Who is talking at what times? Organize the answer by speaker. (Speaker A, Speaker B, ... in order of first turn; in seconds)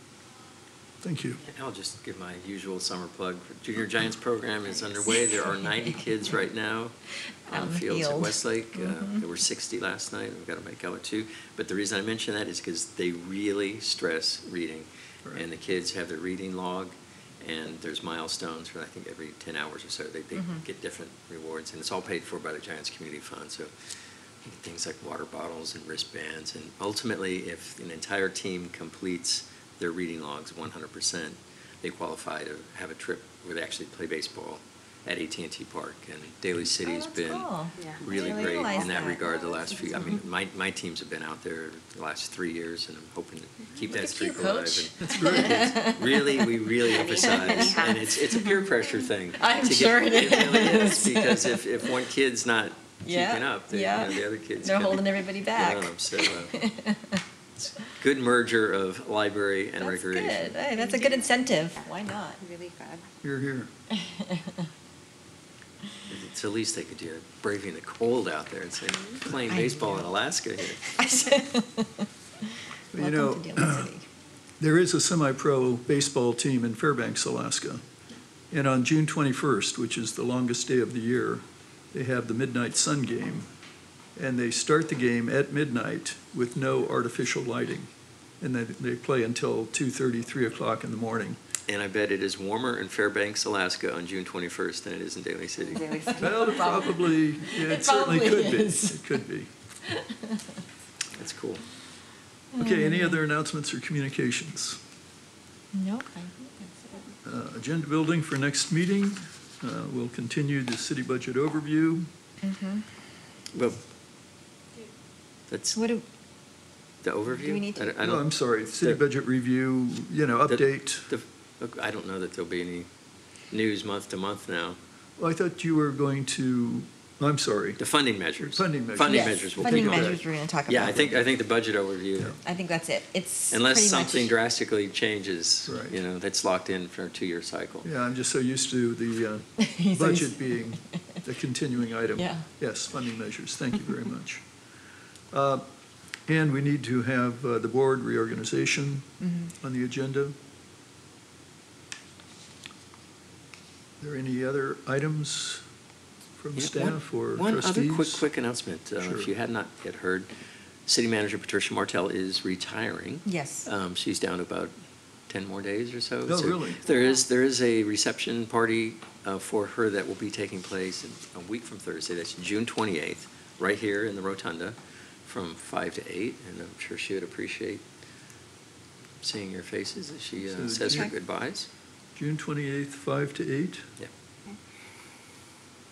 Speaker A: 1.0-1.4, 45.0-45.7, 63.2-63.7, 72.9-73.9, 74.6-77.8, 78.5-83.5, 84.2-87.9, 88.4-91.4, 96.2-99.5, 102.6-104.8, 107.2-112.1, 118.0-121.1, 125.2-127.8, 128.4-130.2, 135.7-136.0, 137.8-144.4, 145.3-145.7, 146.3-149.1, 149.6-150.3, 154.0-155.6, 156.4-158.2, 159.0-159.3, 166.3-166.8, 180.5-181.2, 182.2-183.9
Speaker B: 1.4-23.7, 24.4-56.6, 57.6-60.6, 66.1-71.5, 91.7-96.2, 101.2-101.6, 113.5-113.8, 115.5-115.8, 117.0-119.0, 120.5-122.9, 123.5-124.8, 127.8-132.4, 133.5-137.9, 156.6-160.3, 160.9-164.7, 165.3-177.8, 179.2-181.7
Speaker C: 5.2-5.9, 7.5-9.3, 36.8-40.2, 43.9-48.8, 49.4-51.9, 53.0-57.2, 59.8-62.4, 64.0-64.6, 69.5-70.1, 71.0-72.1, 72.9-74.0, 96.0-99.2, 99.8-100.4, 102.5-103.2, 105.7-107.1, 112.4-112.8, 115.8-116.0, 117.4-118.0, 129.0-131.2, 132.4-134.3, 139.6-140.7, 142.2-142.5, 149.2-149.5, 163.3-163.7, 180.7-181.1
Speaker D: 37.8-39.8, 60.7-61.3, 62.4-63.1, 95.7-96.6